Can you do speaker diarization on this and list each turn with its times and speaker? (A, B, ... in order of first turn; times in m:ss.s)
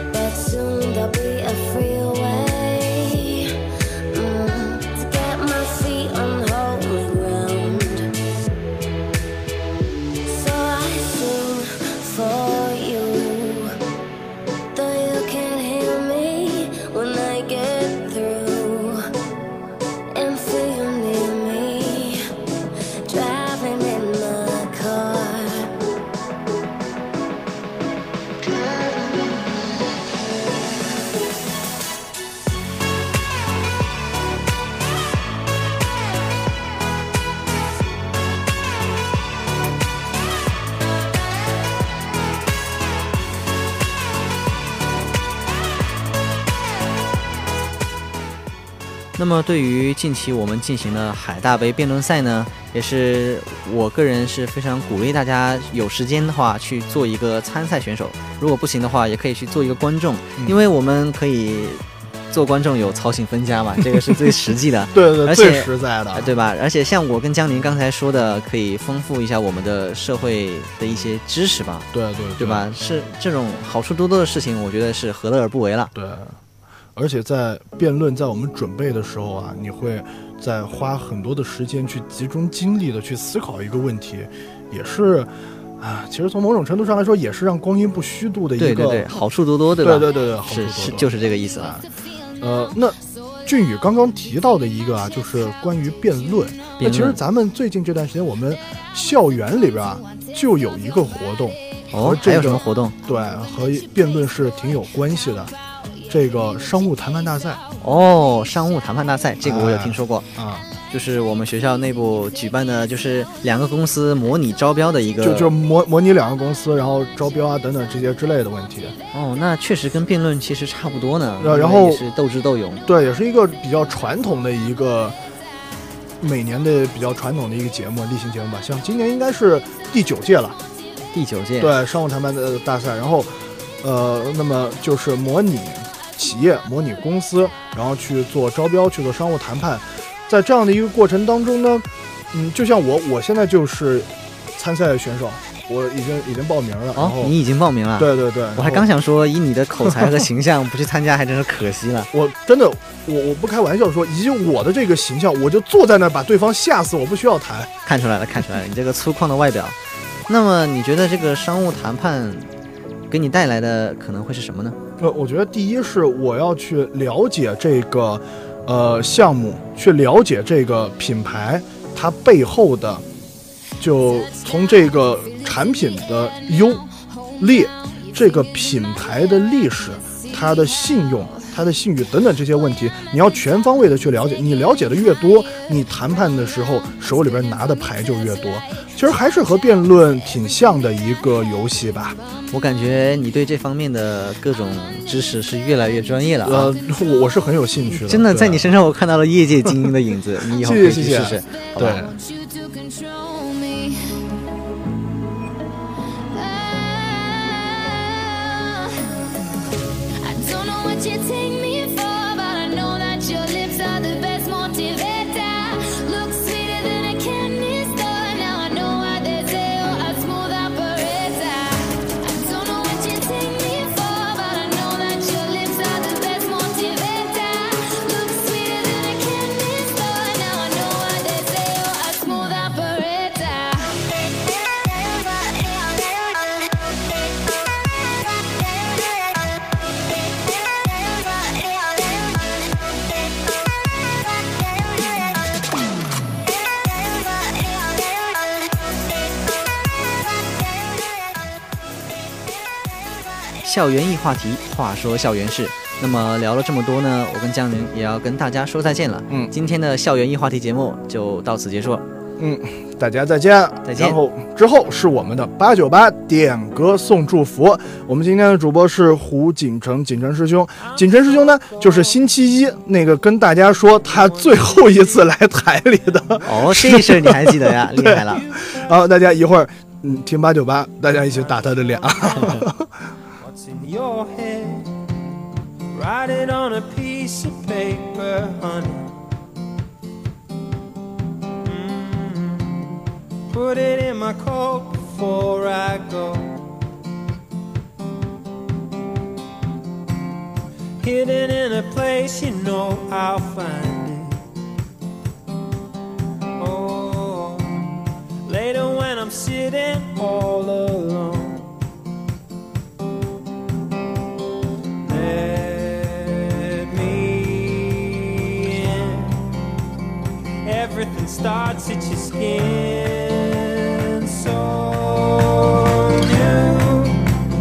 0:00.1-0:03.5 A
0:04.1-0:08.1 A
0:10.3-0:13.7 A
0:14.7-0:19.0 A
0:20.1-0:22.2 A
0:23.1-0:25.7 A
0:28.5-0:29.3 A
0:49.2-1:15.9 B
1:03.9-1:04.4 C
1:04.9-1:06.3 C
1:11.9-1:12.7 C
1:15.9-1:16.4 C
1:17.0-1:29.2 C
1:28.6-1:31.8 B
1:29.8-1:31.9 C
1:32.4-1:45.5 C
1:36.8-1:37.2 B
1:41.9-1:43.0 B
1:46.1-1:47.6 C
1:47.8-1:50.3 B
1:49.4-1:50.7 C
1:50.8-1:55.5 B
1:55.2-1:59.0 C
1:59.1-2:02.8 B
2:01.4-2:02.0 C
2:02.9-2:05.2 C
2:06.2-2:10.6 C
2:11.1-2:11.8 B
2:11.6-2:27.3 C
2:27.0-2:32.1 B
2:28.0-2:28.9 C
2:29.9-2:30.2 C
2:32.1-2:37.7 C
2:37.9-2:39.8 B
2:40.3-2:42.5 B
2:43.1-2:44.8 B
2:45.0-2:53.0 C
2:53.8-2:56.8 C
2:57.4-3:12.2 C
3:12.5-3:16.7 B
3:16.4-3:18.7 C
3:17.9-3:22.1 B
3:20.5-3:22.2 C
3:22.4-3:24.0 D
3:26.3-3:28.8 D
3:30.2-3:53.8 D
4:13.6-4:22.0 B
4:22.4-4:42.9 C
4:23.8-4:24.2 B
4:30.8-4:31.8 E
4:34.0-4:35.0 E
4:36.4-4:38.4 B
4:41.3-4:42.5 E
4:42.4-4:42.6 B
4:43.4-4:44.9 E
4:45.9-4:49.1 E
4:51.6-4:56.6 E
5:01.0-5:04.4 E
5:06.6-5:11.7 E
5:15.0-5:19.5 E
5:20.6-5:27.3 E